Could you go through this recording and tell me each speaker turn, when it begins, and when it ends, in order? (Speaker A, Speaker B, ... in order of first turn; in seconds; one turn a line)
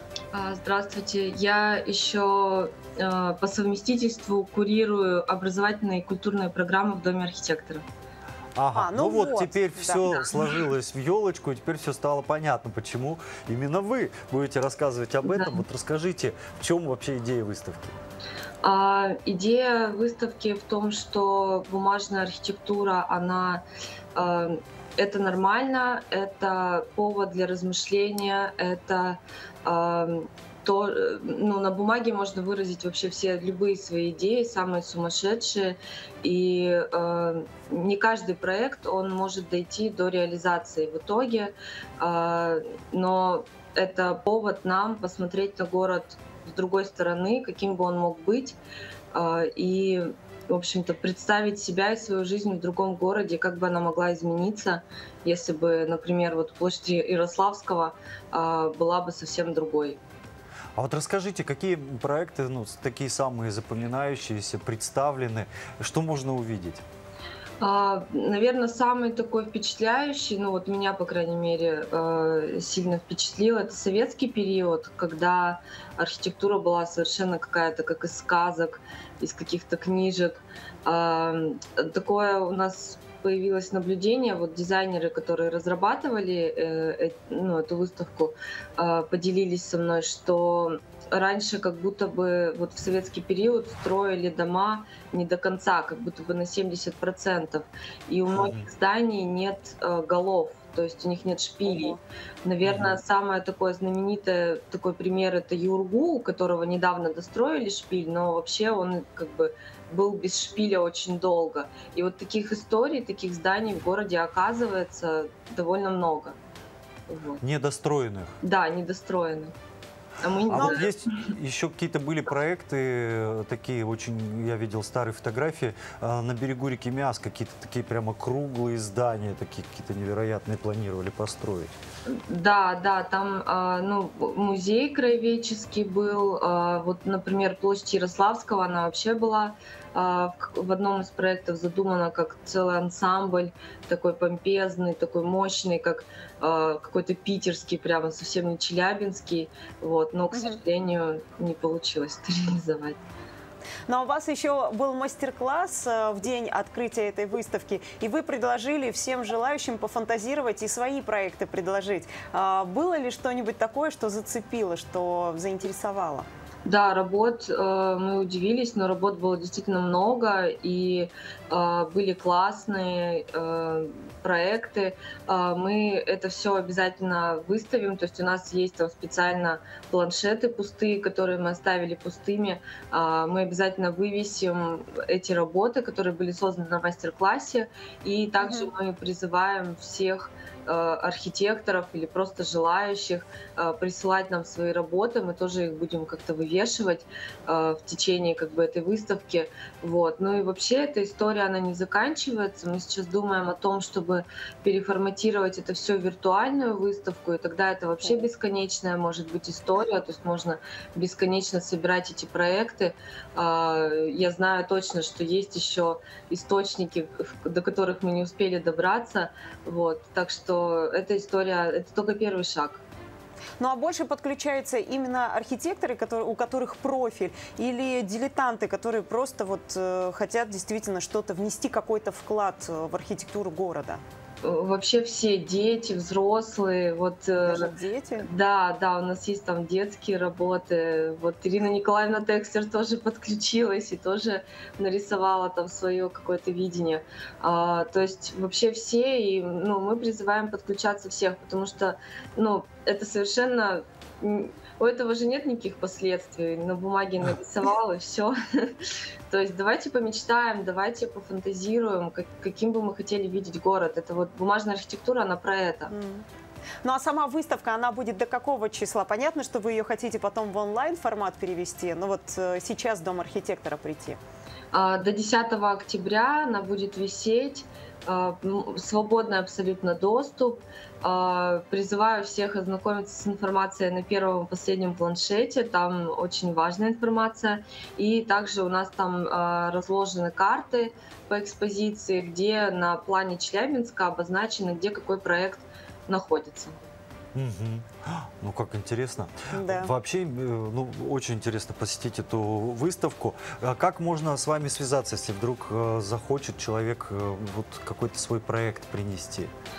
Speaker A: 0.3-7.9
Speaker B: 8.6-18.0
Speaker C: 8.7-10.2
Speaker A: 15.2-15.6
Speaker A: 18.6-23.6
Speaker A: 24.1-48.6
Speaker A: 49.1-60.0
Speaker B: 60.8-66.8
Speaker A: 67.6-116.4
Speaker B: 98.3-98.7
Speaker C: 101.7-102.0
Speaker B: 102.6-103.0
Speaker A: 117.1-117.4
Speaker B: 117.4-118.3
Speaker A: 118.4-119.5
Speaker A: 120.2-121.1
Speaker B: 120.5-131.7
Speaker A: 132.1-153.0
Speaker C: 150.3-150.6
Speaker C: 153.9-166.3
Speaker A: 166.7-222.8
Speaker C: 188.4-188.7
Speaker C: 223.6-234.0
Speaker A: 234.4-265.9
Speaker C: 237.4-238.3
Speaker C: 265.9-266.2
Speaker C: 266.8-274.2
Speaker A: 274.7-296.8
Speaker B: 297.4-309.5
Speaker C: 299.5-299.9